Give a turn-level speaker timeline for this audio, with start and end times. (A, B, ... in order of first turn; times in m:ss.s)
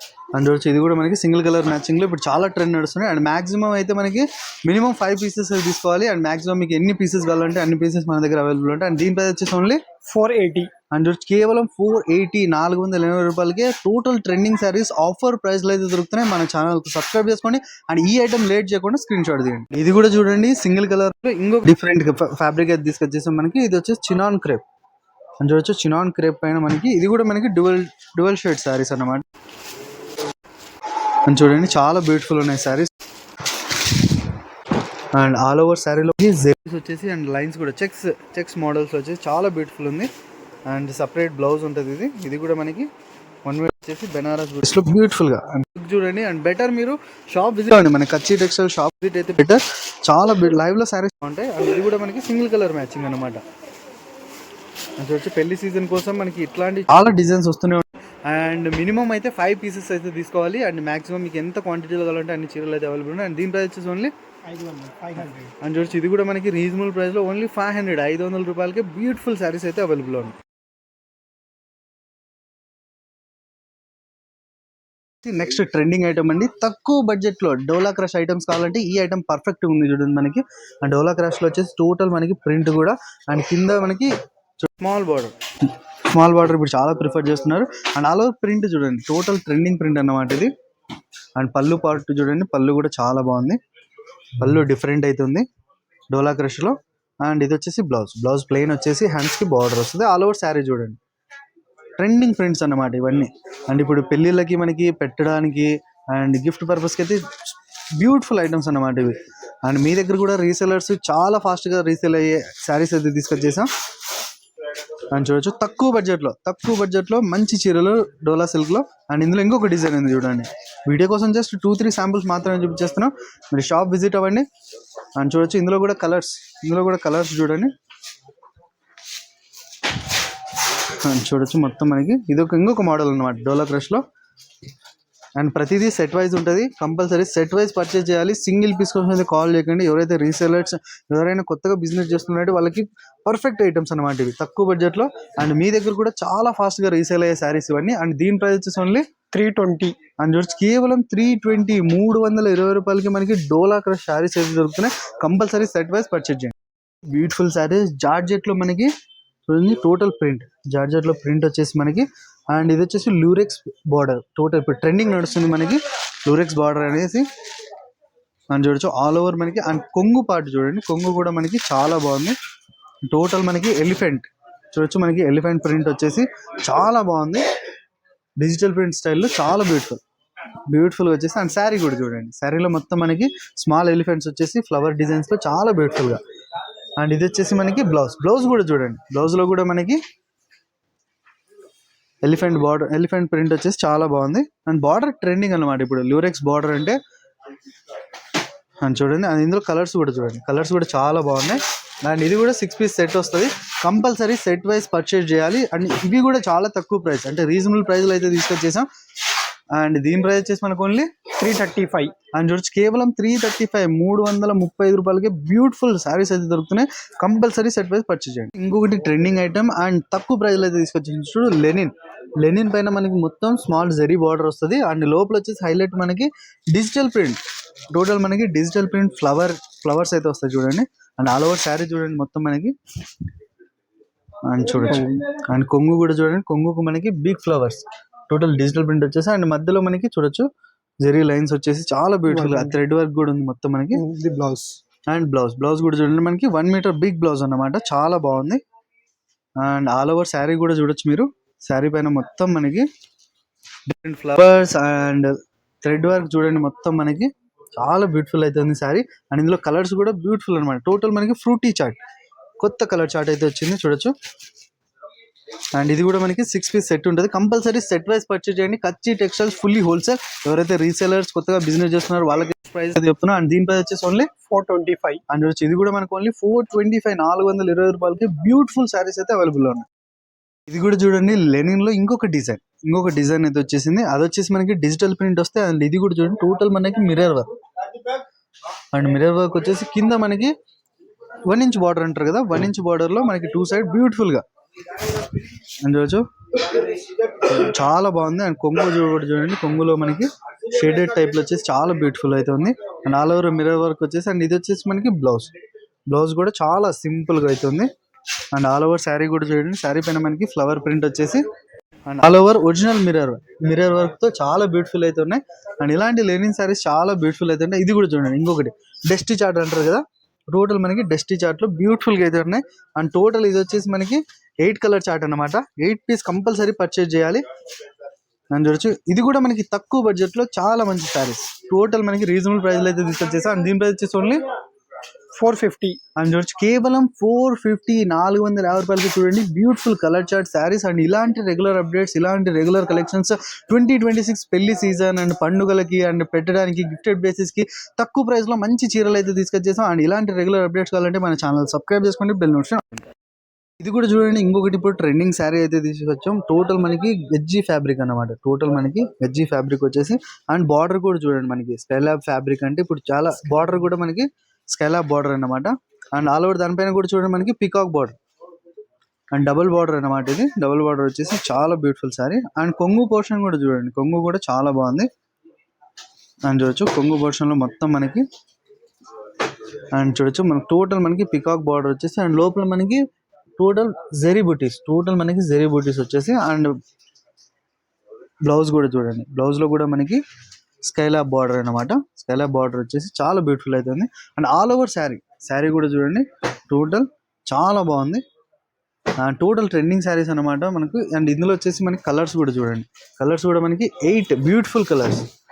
0:00.4-0:09.8 A
0:10.0-0:10.7 B
0:10.9-0:24.6 A
0:25.4-0:29.3 A
0:31.2-0:32.9 A
0:33.7-0:34.3 A
0:35.1-0:40.1 A
0:40.7-0:42.9 A
0:43.4-0:53.4 A
0:55.0-1:04.1 A
1:04.5-1:05.5 B
1:05.6-1:10.4 A
1:15.2-1:30.5 A
1:31.4-1:33.6 A
1:34.4-1:35.5 A
1:36.1-1:41.0 A
1:42.0-1:53.7 A
1:55.1-2:04.5 A
2:05.2-2:07.7 A
2:10.7-2:14.0 A
2:15.4-2:29.1 A
2:29.3-2:30.0 B
2:30.2-2:36.6 A
2:37.1-2:38.9 A
2:39.5-2:47.3 A
2:48.5-2:52.4 A
2:53.1-2:57.4 A
2:58.4-3:00.0 A
3:00.7-3:06.2 A
3:07.0-3:10.0 A
3:12.2-3:17.0 A
3:18.8-3:28.9 A
3:29.8-3:31.1 A
3:31.4-3:32.1 B
3:32.3-3:47.4 A
3:47.9-3:52.8 A
3:54.5-4:00.5 A
3:54.9-3:55.2 B
4:01.0-4:04.0 A
4:02.3-4:02.8 B
4:03.9-4:04.8 B
4:05.1-4:08.6 A
4:09.6-4:12.9 A
4:13.9-4:22.0 A
4:22.6-4:24.1 A
4:25.8-4:34.3 A
4:34.5-4:35.2 B
4:35.3-4:39.9 A
4:40.7-4:47.5 A
4:48.9-4:50.5 A
4:51.4-4:54.4 A
4:55.8-5:05.5 A
5:06.1-5:07.9 A
5:08.5-5:11.4 A
5:12.1-5:27.4 A
5:28.5-5:34.4 A
5:35.3-5:36.0 B
5:36.2-5:53.1 A
5:53.8-6:08.2 A
6:09.3-6:15.1 A
6:16.4-6:18.2 A
6:19.9-6:23.0 A
6:23.6-6:26.8 A
6:28.5-6:30.2 A
6:30.8-6:38.2 A
6:39.2-6:45.3 A